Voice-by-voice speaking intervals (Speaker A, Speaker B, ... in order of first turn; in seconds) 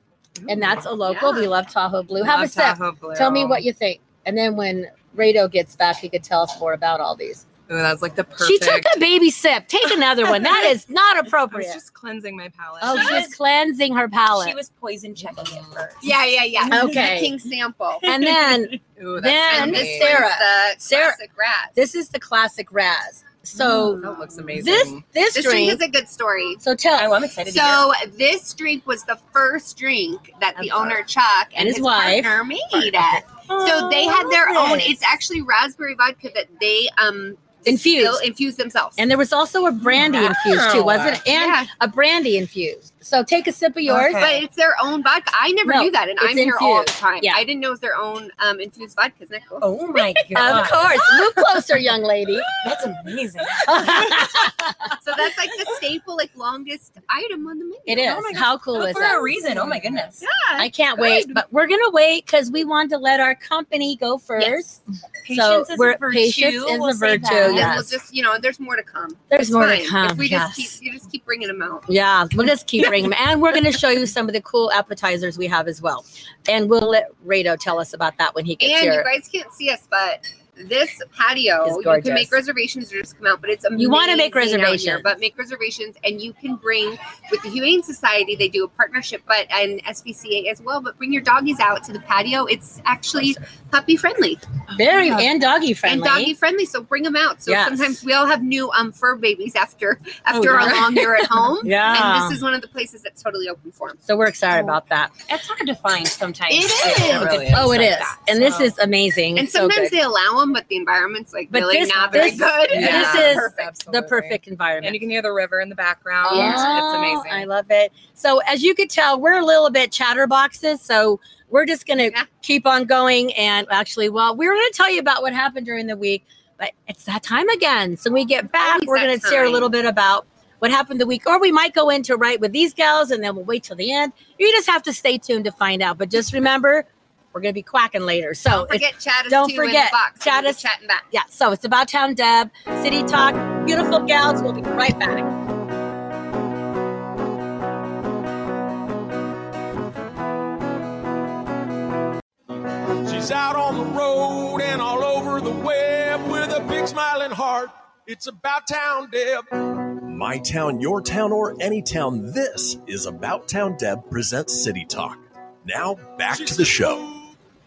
Speaker A: 0.4-0.8, 2.2-3.6, 7.7-9.0, 11.3-13.3, 18.9-20.2, 23.6-25.0, 40.5-40.9, 100.5-101.5, 107.0-108.4, 112.0-117.5
Speaker B: 0.5-7.4, 8.4-11.8, 12.8-14.6, 16.7-17.3, 18.1-21.2, 21.8-25.8, 26.6-27.1, 30.6-31.0, 31.6-33.0, 34.0-34.9, 37.6-38.2, 39.0-44.4, 45.6-47.4, 50.3-52.5, 53.6-54.9, 57.9-59.2, 60.6-68.0, 69.3-70.8, 71.9-79.1, 81.6-82.4, 83.8-85.1, 94.7-96.3, 97.5-98.0, 100.3-101.0, 101.6-102.4, 104.0-105.1, 107.5-110.0, 111.5-115.0, 116.2-145.3
Speaker C: 1.0-1.5, 16.0-18.1, 19.5-21.8, 25.3-26.6, 27.4-39.0, 41.3-41.7, 44.1-49.7, 55.0-58.3, 60.2-61.4, 67.4-71.9, 78.6-94.4, 95.8-104.0, 106.5-107.5, 109.3-113.8, 128.6-129.7, 138.5-141.1
Speaker D: 12.8-13.3, 14.3-16.1, 26.9-27.9, 33.5-34.9, 40.2-41.1, 43.9-44.3, 49.6-51.2, 52.6-54.5, 58.0-60.2, 65.2-67.7, 94.8-95.2, 105.3-108.5, 116.2-116.7
Speaker E: 153.1-159.5, 166.3-167.3
Speaker F: 160.0-167.1